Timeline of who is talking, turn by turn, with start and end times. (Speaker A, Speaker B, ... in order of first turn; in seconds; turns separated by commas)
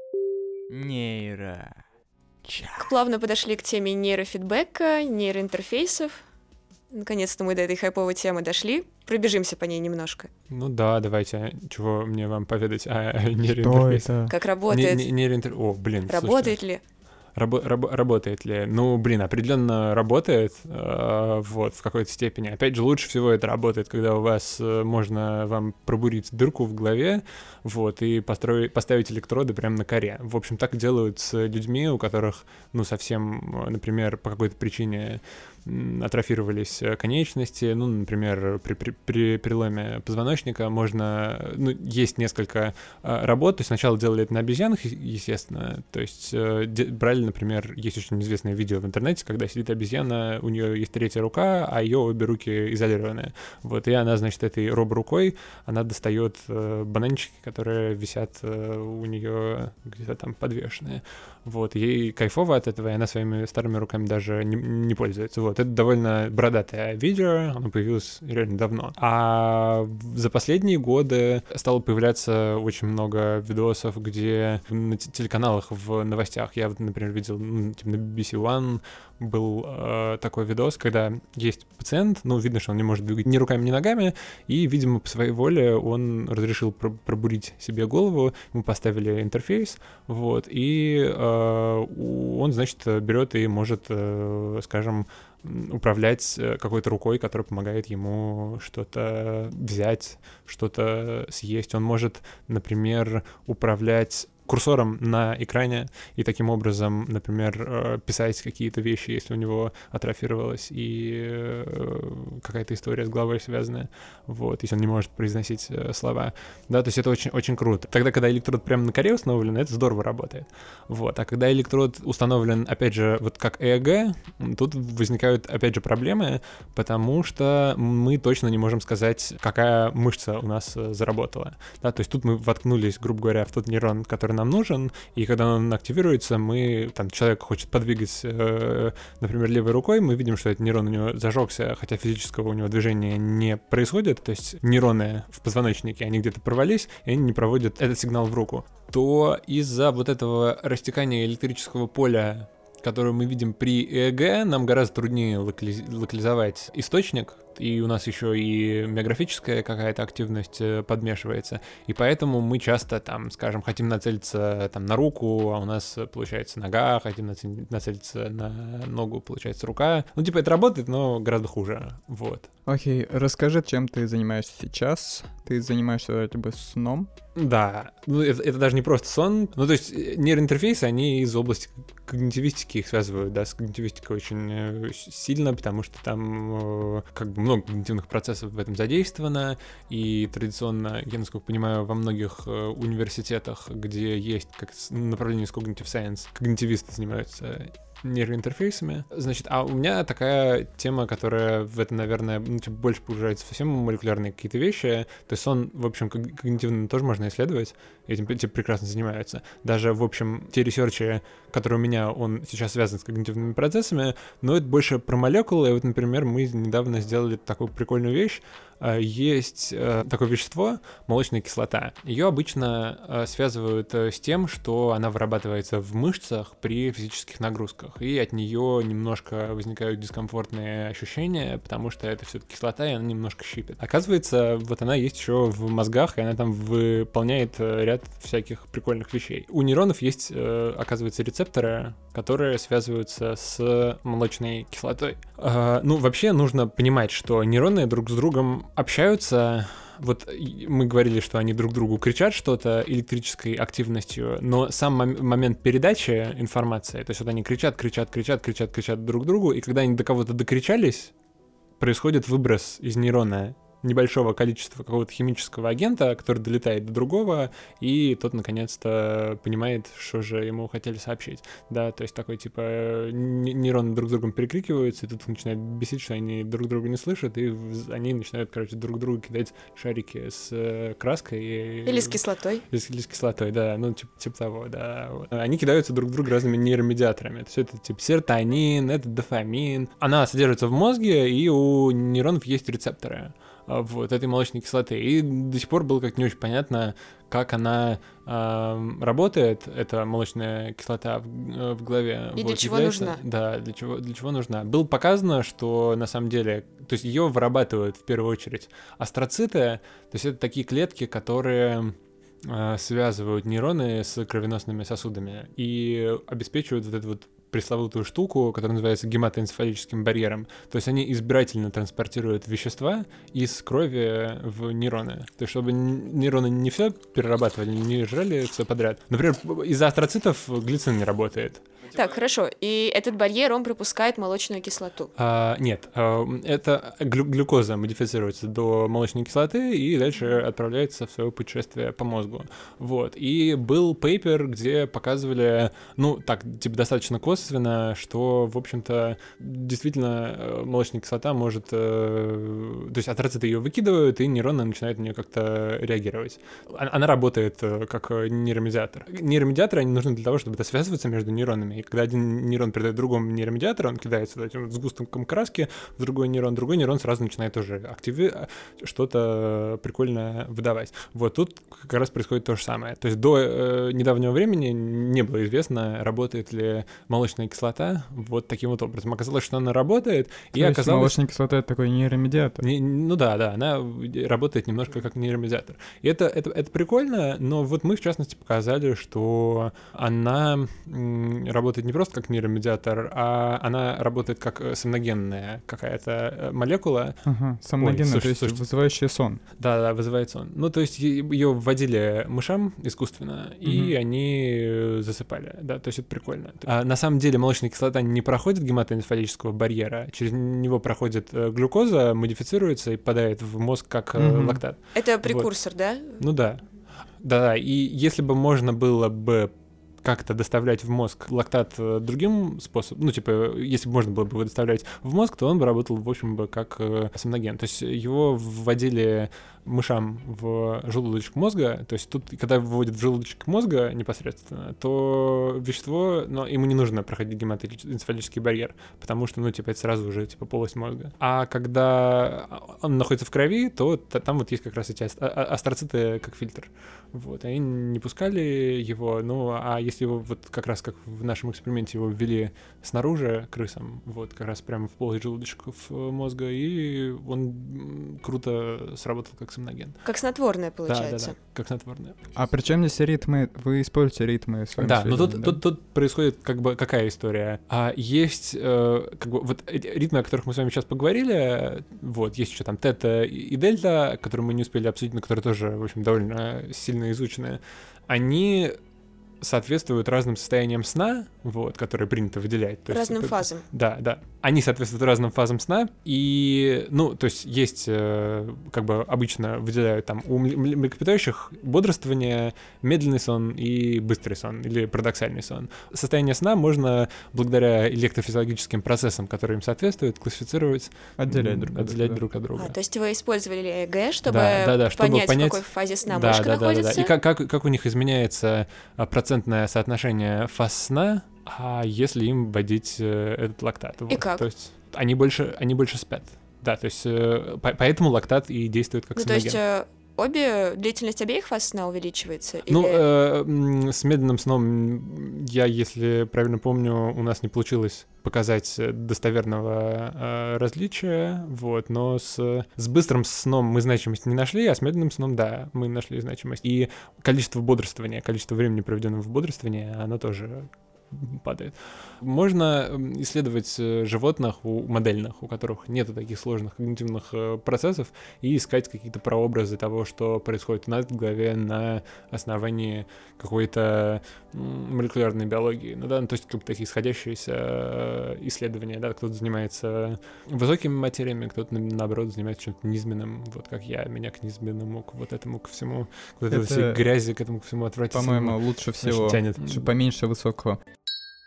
Speaker A: 0.7-1.8, Speaker A: 2.5-2.9, Speaker B: 2.8-6.2, Speaker B: 6.9-10.3, Speaker C: 10.5-14.1, Speaker A: 13.6-14.3, Speaker B: 14.3-15.1, Speaker C: 14.7-16.6, Speaker B: 16.1-16.8, Speaker C: 17.4-172.5, Speaker A: 172.7-177.1, Speaker C: 177.3-261.1, Speaker C: 261.8-282.2, Speaker B: 281.9-282.6, Speaker C: 282.7-331.6, Speaker B: 302.4-303.2, Speaker B: 331.9-335.1, Speaker C: 335.2-381.2, Speaker A: 380.6-382.6, Speaker C: 382.6-397.2, Speaker A: 397.2-399.4, Speaker C: 397.8-398.6, Speaker C: 399.6-415.5, Speaker A: 403.6-403.9, Speaker A: 414.2-414.6, Speaker B: 414.9-416.2, Speaker C: 416.2-416.6, Speaker C: 417.2-419.5, Speaker C: 420.0-460.0, Speaker B: 460.1-461.4, Speaker C: 460.9-462.2, Speaker A: 462.4-465.6, Speaker C: 464.8-478.8, Speaker C: 479.4-502.8, Speaker B: 482.9-483.6, Speaker A: 501.2-502.2, Speaker B: 502.6-507.1, Speaker C: 504.3-519.6, Speaker B: 514.1-514.5, Speaker B: 519.2-523.0, Speaker C: 522.7-569.9, Speaker A: 566.5-567.1, Speaker A: 568.1-570.8